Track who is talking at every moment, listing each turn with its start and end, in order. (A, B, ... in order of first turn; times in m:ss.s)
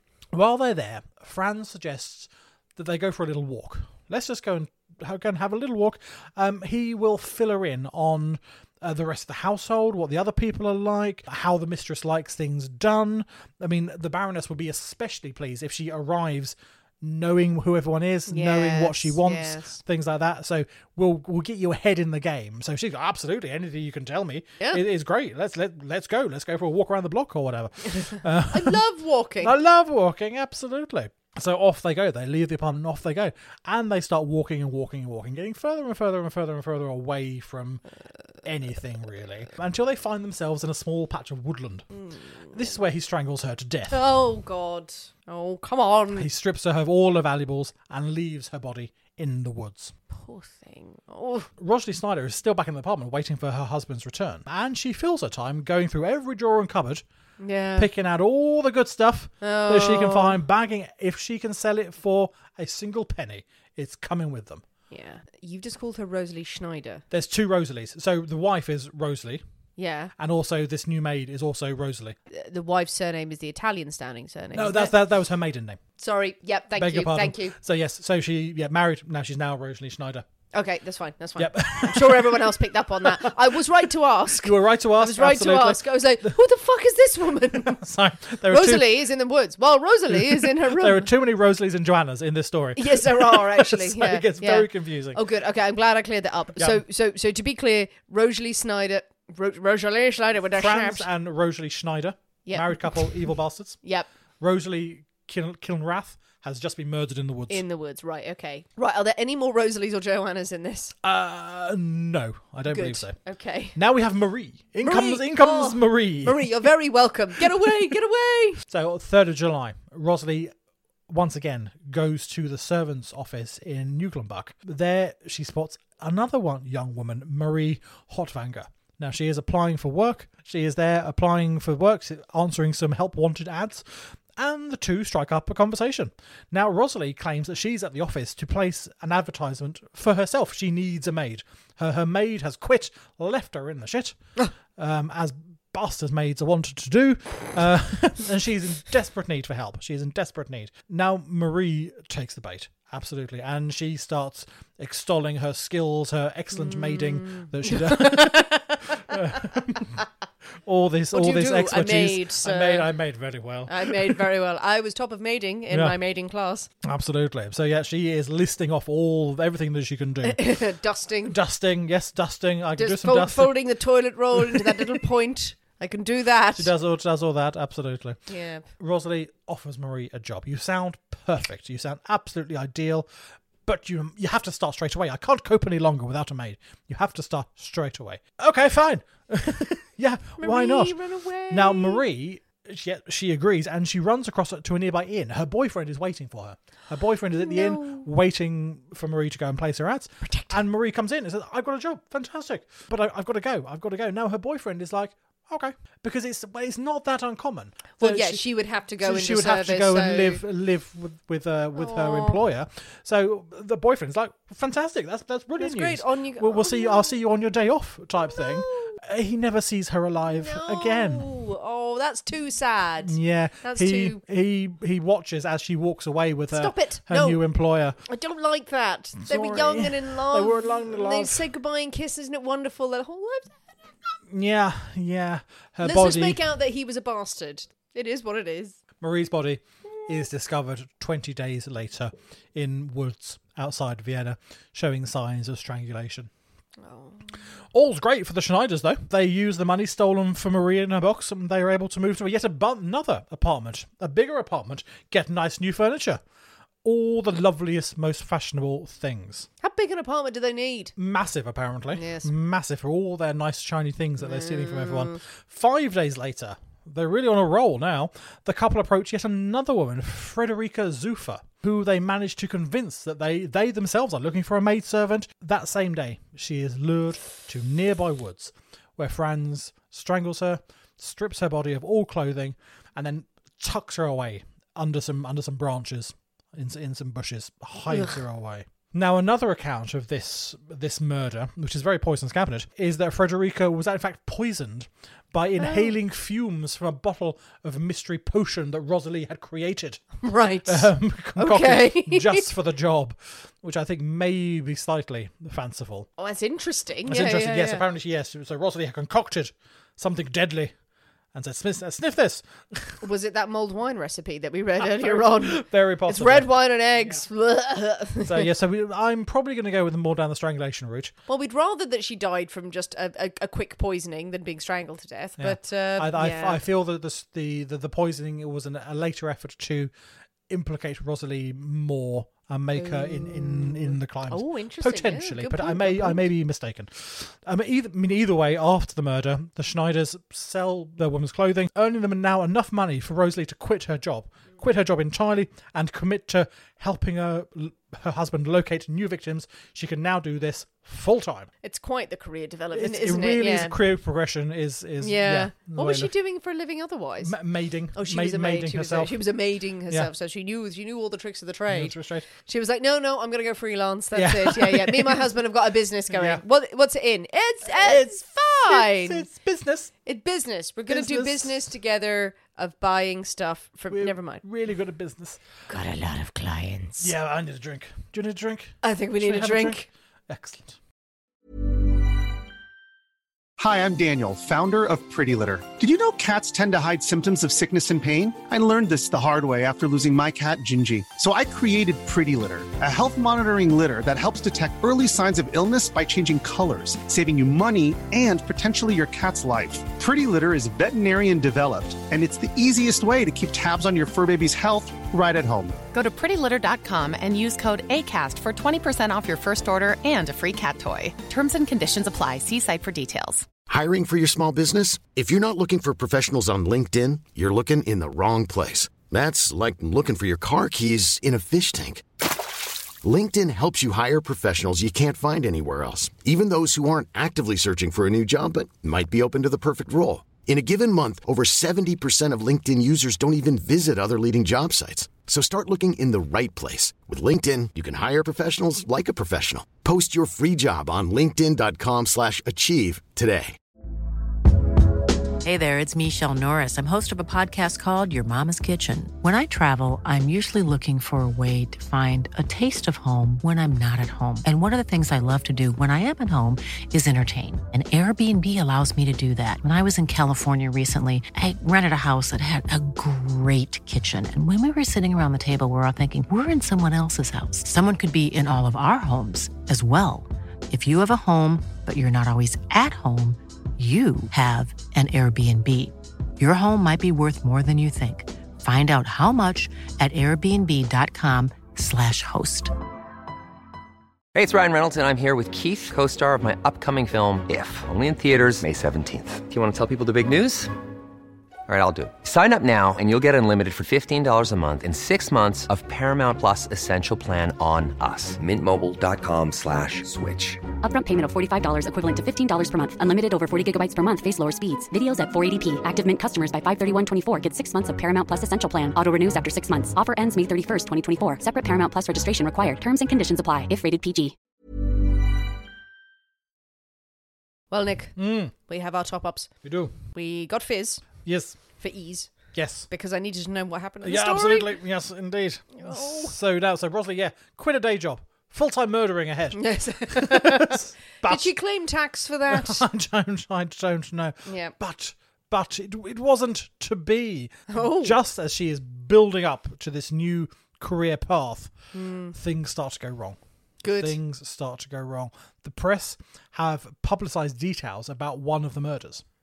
0:00.3-0:28.8 A
0:18.3-0:19.8 B
0:27.9-0:29.6 B
0:29.4-0:37.8 A
0:38.4-0:41.9 A
0:42.0-0:42.5 B
0:42.5-0:44.1 A
0:43.9-0:46.3 B
0:46.1-0:49.9 A
0:50.1-0:51.5 B
0:51.6-0:57.0 A
0:57.4-0:57.9 B
0:57.8-1:04.6 A
0:59.4-1:00.4 B
1:04.9-1:07.0 B
1:07.1-1:09.4 A
1:09.8-1:10.1 B
1:10.2-1:12.2 A
1:12.3-1:15.0 B
1:14.5-1:15.8 A
1:16.0-1:17.6 B
1:16.8-1:20.3 A
1:20.5-1:27.8 B
1:21.4-1:23.7 A
1:24.3-1:26.3 A
1:27.5-1:29.0 A
1:28.5-1:31.1 B
1:30.1-1:35.2 A
1:32.8-1:41.1 B
1:36.6-1:36.8 A
1:40.5-1:43.8 A
1:42.4-1:43.2 B
1:43.8-1:44.1 B
1:44.4-1:47.6 A
1:47.5-1:51.0 B
1:51.0-1:53.2 A
1:52.7-1:53.8 B
1:53.8-1:56.7 A
1:54.8-1:58.6 B
1:57.4-1:57.9 A
1:58.7-2:00.5 A
2:01.1-2:24.2 A
2:24.7-2:40.0 A
2:36.5-2:39.6 B
2:40.6-2:44.3 A
2:41.1-2:42.9 B
2:43.7-2:46.7 B
2:45.7-2:46.0 A
2:46.8-2:50.4 A
2:50.2-2:51.4 B
2:51.3-2:53.6 A
2:52.8-2:56.7 B
2:54.4-2:55.0 A
2:56.6-2:58.2 A
2:58.3-2:58.7 B
2:58.8-3:03.1 A
3:03.6-3:11.0 A
3:10.4-3:12.0 B
3:11.5-3:28.5 A
3:17.4-3:18.1 B
3:20.2-3:20.5 B
3:28.0-3:30.4 B
3:29.0-3:41.3 A
3:31.8-3:32.4 B
3:35.6-3:37.2 B
3:38.3-3:39.0 B
3:40.3-3:44.2 B
3:43.0-3:48.0 A
3:46.5-3:47.4 B
3:48.1-3:53.8 B
3:49.2-3:51.5 A
3:54.3-3:56.4 A
3:55.8-3:58.8 B
3:59.0-4:06.3 A
4:06.8-4:07.3 B
4:07.7-4:16.2 A
4:16.8-4:19.5 A
4:19.6-4:20.9 B
4:21.0-5:06.1 A
4:21.9-4:22.3 B
4:24.2-4:25.2 B
4:47.9-4:48.2 B
4:55.6-4:55.9 B
5:00.2-5:02.5 B
5:06.2-5:07.8 B
5:07.0-5:10.7 A
5:11.3-5:13.0 A
5:13.0-5:18.5 B
5:14.8-5:17.2 A
5:18.2-5:21.1 A
5:21.3-5:26.6 B
5:25.4-5:29.9 A
5:30.5-5:51.5 A
5:32.8-5:36.3 B
5:51.6-5:53.8 B
5:52.7-5:56.1 A
5:55.0-5:57.4 B
5:57.2-5:59.2 A
5:57.9-6:09.3 B
6:01.7-6:02.3 A
6:04.1-6:05.3 A
6:06.1-6:06.4 A
6:07.6-6:09.9 A
6:10.0-6:14.4 B
6:10.9-6:11.7 A
6:13.9-6:15.4 A
6:15.7-6:17.1 C
6:17.0-6:20.8 A
6:18.8-6:19.8 B
6:23.6-6:45.8 D
6:45.9-6:53.5 E
6:53.7-7:02.1 F
7:03.0-7:23.6 F
7:25.4-8:02.7 C
8:04.4-8:10.7 G
8:11.7-8:20.6 G
8:20.8-8:34.4 H
8:37.7-8:39.5 B
8:38.2-8:38.5 A
8:39.6-8:40.0 A
8:40.1-8:41.1 B
8:41.2-8:41.6 A
8:41.8-8:42.3 B
8:42.5-8:42.9 A
8:42.9-8:44.8 B
8:44.0-8:51.5 A
8:45.8-8:46.3 B
8:49.6-8:52.8 B
8:52.5-9:01.7 A
8:54.5-8:54.7 B
8:57.7-8:58.2 B
9:01.9-9:02.4 B
9:02.3-9:03.4 A
9:03.8-9:04.2 B
9:03.9-9:09.2 A